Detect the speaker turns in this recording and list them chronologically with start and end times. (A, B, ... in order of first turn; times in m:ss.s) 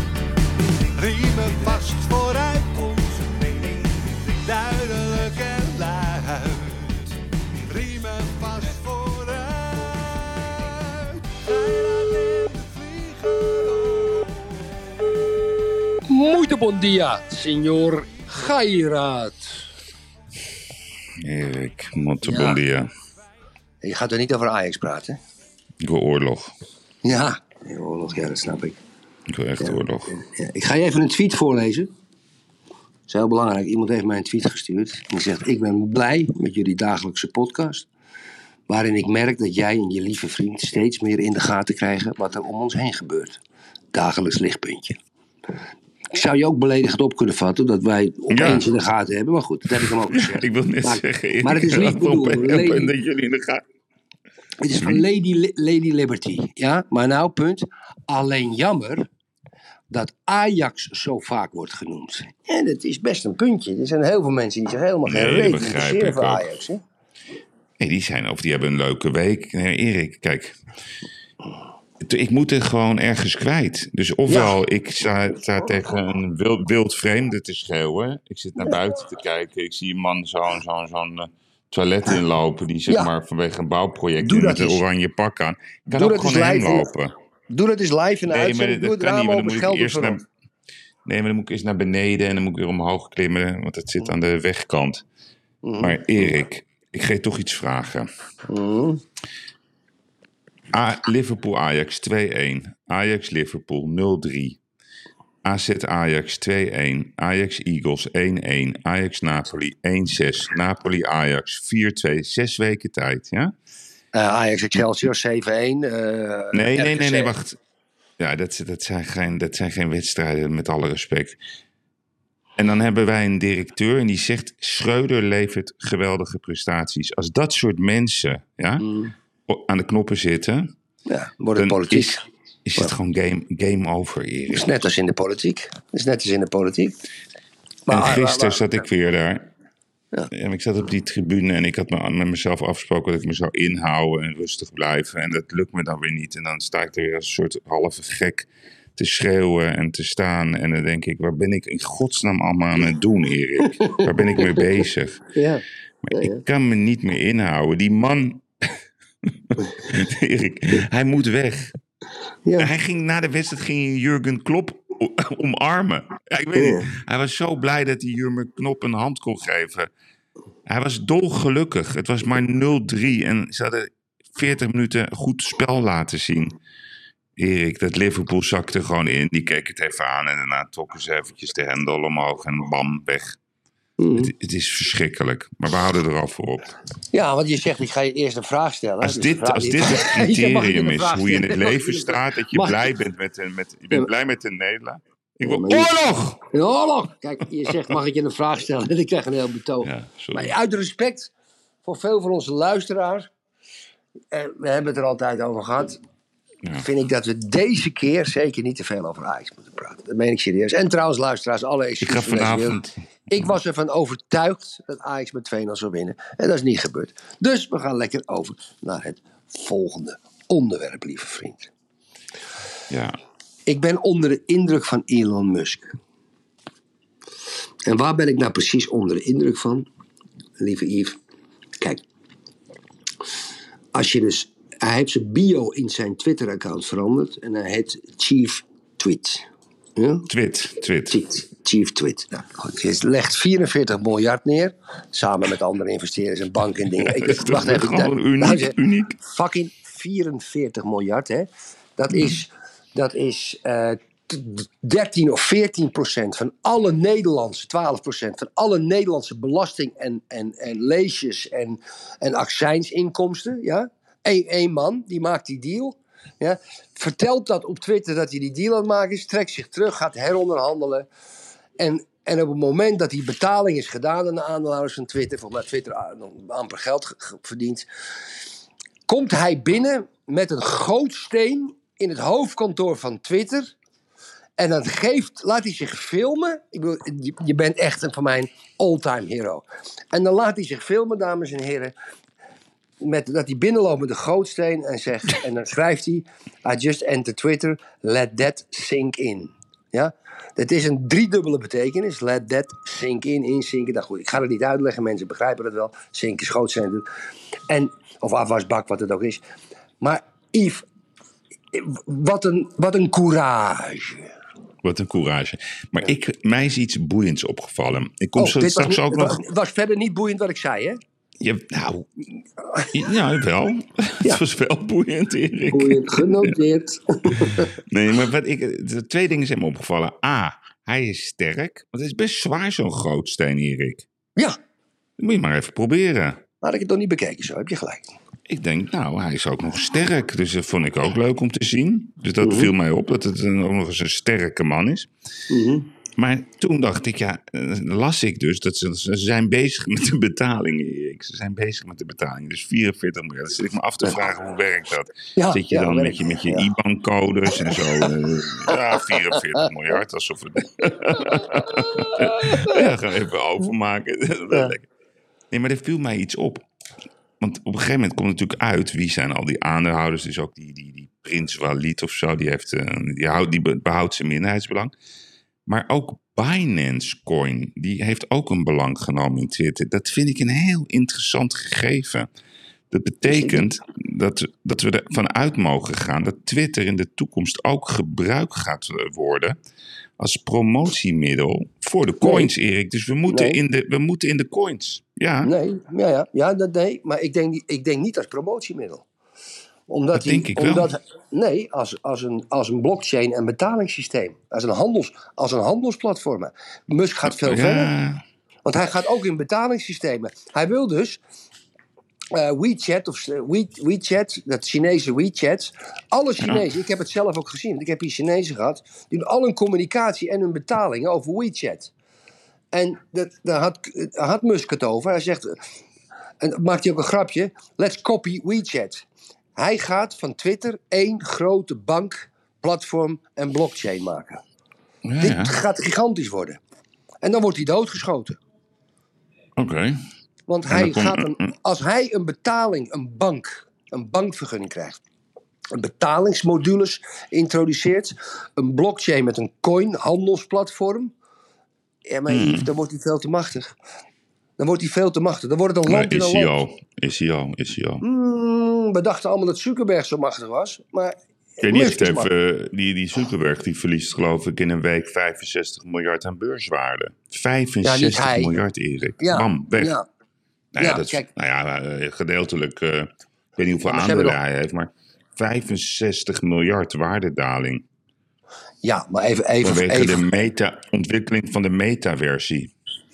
0:00.8-0:14.6 A
0:16.1-0:19.6 B
0:21.2-0:22.9 C
0:22.2-0:22.6 B
0:23.8-0:25.2 B
0:25.8-0:26.5 C
0:27.0-0:28.8 B
0:29.3-0:30.1 C
0:29.6-0:31.9 B
0:33.1-0:37.9 B
0:38.7-0:43.4 B
0:43.9-0:45.0 B
0:46.1-0:52.9 B
0:48.3-0:48.7 C
0:49.8-0:53.6 C
0:54.6-0:59.1 B
0:59.9-1:06.8 B
1:05.0-1:06.4 C
1:07.8-1:10.6 C
1:12.0-1:27.1 C
1:14.3-1:14.6 B
1:24.2-1:24.8 B
1:25.9-1:26.9 B
1:27.5-1:30.2 B
1:28.3-1:30.2 C
1:31.0-1:35.0 C
1:35.6-1:36.0 B
1:35.8-1:38.1 C
1:38.5-1:39.0 B
1:40.7-1:44.6 C
1:45.4-1:53.5 C
1:54.1-1:57.3 B
1:56.5-1:57.6 C
1:58.2-2:01.4 C
2:02.6-2:08.8 C
2:08.8-2:09.1 B
2:09.5-2:10.7 C
2:11.1-2:12.2 B
2:11.6-2:14.7 C
2:14.5-2:17.0 B
2:17.9-2:18.6 B
2:17.9-2:19.4 C
2:20.3-2:35.3 C
2:33.8-2:34.4 B
2:35.3-2:36.4 B
2:36.1-2:41.8 C
2:42.4-2:42.7 B
2:42.6-2:49.9 C
2:46.6-2:46.8 B
2:50.6-2:56.6 C
2:57.4-3:03.4 C
3:04.0-3:04.3 B
3:04.2-3:06.7 C
3:07.1-3:12.9 B
3:09.0-3:16.4 C
3:15.4-3:15.9 B
3:16.5-3:21.3 B
3:19.8-3:20.5 C
3:21.8-3:23.3 B
3:24.3-3:26.0 B
3:26.8-3:41.7 B
3:32.0-3:32.9 C
3:42.9-3:43.2 C
3:43.7-3:45.9 B
3:47.8-3:49.9 B
3:50.6-3:51.2 B
3:53.9-4:00.3 B
4:00.3-4:01.2 C
4:01.1-4:31.1 B
4:07.0-4:09.2 C
4:31.8-4:37.8 B
4:39.1-4:43.7 B
4:44.6-4:51.9 B
4:53.0-5:07.0 B
5:07.7-5:09.4 B
5:10.0-5:10.8 B
5:11.7-5:14.3 B
5:14.8-5:19.4 C
5:18.4-5:21.0 B
5:21.4-5:22.1 C
5:22.9-5:26.6 C
5:25.7-5:27.7 B
5:27.3-5:34.0 C
5:35.2-5:36.4 C
5:36.6-5:38.1 B
5:38.5-5:45.1 C
5:42.4-5:42.7 B
5:45.5-5:45.9 B
5:46.2-6:04.9 C
5:55.4-5:56.7 B
5:57.7-5:58.1 B
6:02.1-6:02.8 B
6:05.5-6:06.6 C
6:07.4-6:14.9 C
6:15.6-6:22.3 C
6:22.9-6:29.6 C
6:23.3-6:23.6 B
6:30.2-6:35.5 C
6:32.2-6:32.5 B
6:33.3-6:33.6 B
6:35.4-6:39.0 B
6:39.9-6:47.9 B
6:40.1-6:40.9 C
6:47.3-6:48.2 C
6:48.6-6:51.2 B
6:52.3-7:01.9 B
6:56.4-6:56.7 C
7:02.7-7:05.6 B
7:06.4-7:14.4 B
7:15.0-7:15.6 C
7:15.2-7:16.6 B
7:17.2-7:18.4 B
7:19.6-7:20.0 C
7:20.5-7:25.0 B
7:20.7-7:21.3 C
7:25.7-7:31.1 B
7:32.1-7:33.8 B
7:32.3-7:32.7 C
7:34.6-7:36.5 B
7:35.8-7:38.0 C
7:38.0-7:42.3 B
7:41.6-7:50.0 C
7:47.8-7:48.5 B
7:49.2-7:50.0 B
7:50.7-7:57.8 C
7:50.8-7:51.3 B
7:53.8-7:54.4 B
7:58.8-8:00.2 B
7:59.6-8:02.7 C